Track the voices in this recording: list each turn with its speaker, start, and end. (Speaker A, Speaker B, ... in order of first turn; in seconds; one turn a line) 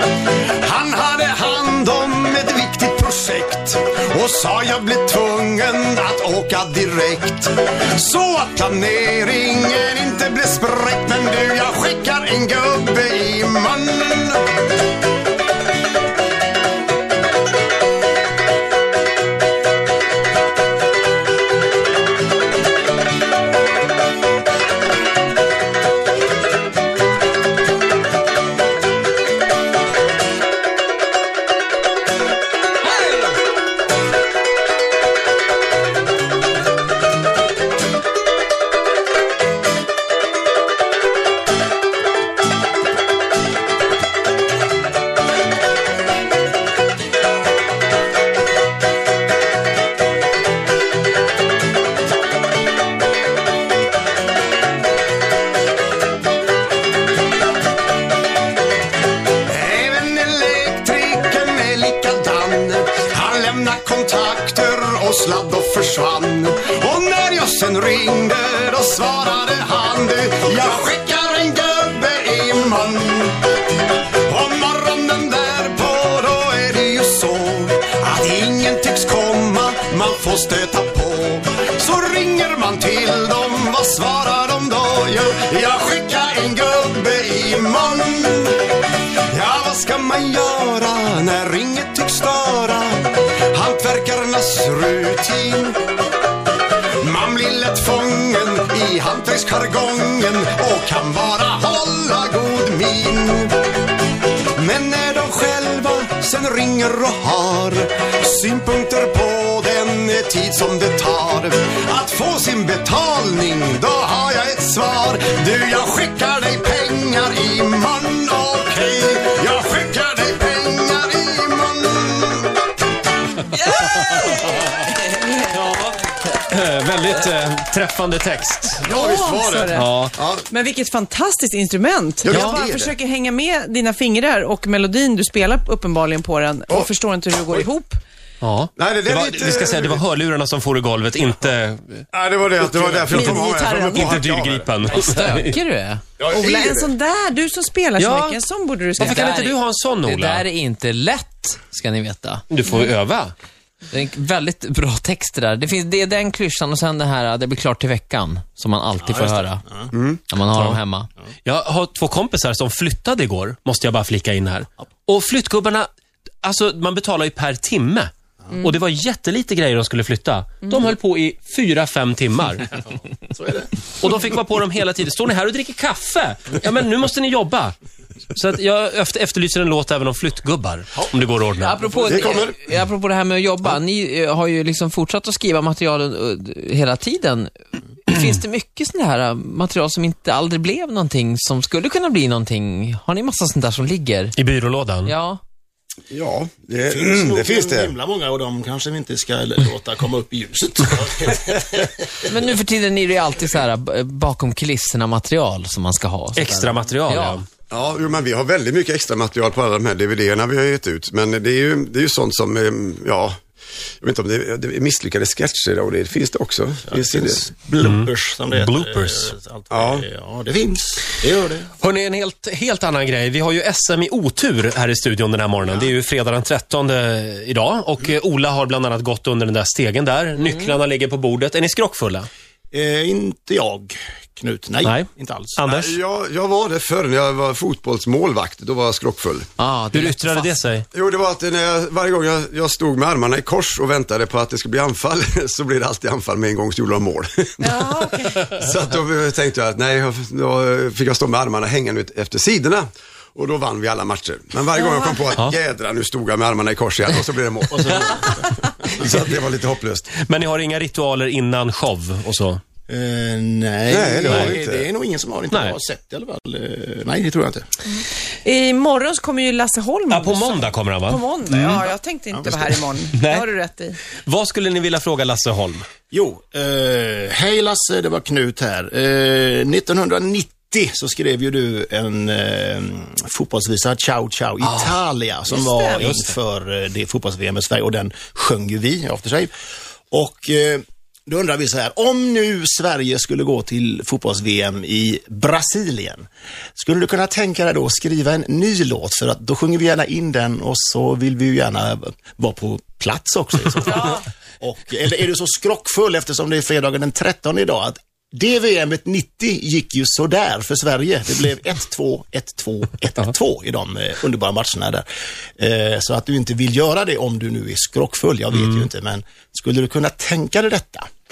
Speaker A: 0.6-14.4
Speaker A: 59.5-73.4
Speaker A: 74.3-88.6
Speaker A: 89.3-95.8
Speaker A: 97.0-103.5
Speaker A: 104.6-122.6
Speaker B: 123.8-128.9
Speaker A: 128.8-130.5
Speaker C: 128.9-138.0
Speaker B: 129.7-130.2
Speaker A: 132.2-133.0
Speaker B: 132.3-132.6
Speaker B: 138.4-142.0
Speaker A: 138.8-140.0
Speaker A: 142.1-144.7
Speaker C: 143.0-144.2
Speaker B: 143.9-145.6
Speaker D: 144.9-146.0
Speaker A: 146.2-146.9
Speaker C: 146.2-149.2
Speaker B: 148.0-148.4
Speaker B: 149.0-150.4
Speaker D: 149.0-152.4
Speaker B: 152.5-153.3
Speaker D: 153.9-159.6
Speaker E: 159.0-159.9
Speaker A: 159.9-160.2
Speaker D: 160.3-161.1
Speaker B: 160.5-160.8
Speaker B: 161.4-165.9
Speaker B: 166.4-172.7
Speaker E: 173.3-173.7
Speaker B: 174.0-177.8
Speaker B: 178.3-181.8
Speaker D: 181.6-187.5
Speaker E: 181.8-182.3
Speaker A: 182.0-182.7
Speaker D: 188.1-194.4
Speaker B: 194.4-195.1
Speaker D: 195.1-195.4
Speaker A: 196.1-197.9
Speaker E: 196.8-202.3
Speaker D: 202.3-207.4
Speaker B: 206.4-207.4
Speaker A: 207.7-213.4
Speaker A: 214.0-217.5
Speaker E: 216.9-221.7
Speaker B: 217.8-219.3
Speaker A: 219.7-220.1
Speaker B: 221.8-232.3
Speaker E: 232.7-235.6
Speaker B: 234.8-236.0
Speaker A: 235.7-239.5
Speaker D: 239.6-240.6
Speaker B: 239.9-240.9
Speaker A: 240.9-258.3
Speaker C: 247.6-248.6
Speaker C: 254.8-255.3
Speaker E: 257.7-259.0
Speaker B: 258.9-259.3
Speaker A: 258.9-260.1
Speaker B: 260.2-262.6
Speaker E: 262.9-267.7
Speaker A: 263.9-264.9
Speaker B: 264.3-264.6
Speaker C: 268.4-274.0
Speaker B: 270.1-271.9
Speaker E: 272.3-272.7
Speaker B: 273.1-273.5
Speaker B: 274.3-275.8
Speaker E: 276.1-289.5
Speaker C: 285.5-286.1
Speaker E: 290.1-296.3
Speaker E: 296.8-315.1
Speaker C: 303.9-304.2
Speaker E: 315.6-321.1
Speaker B: 318.5-318.9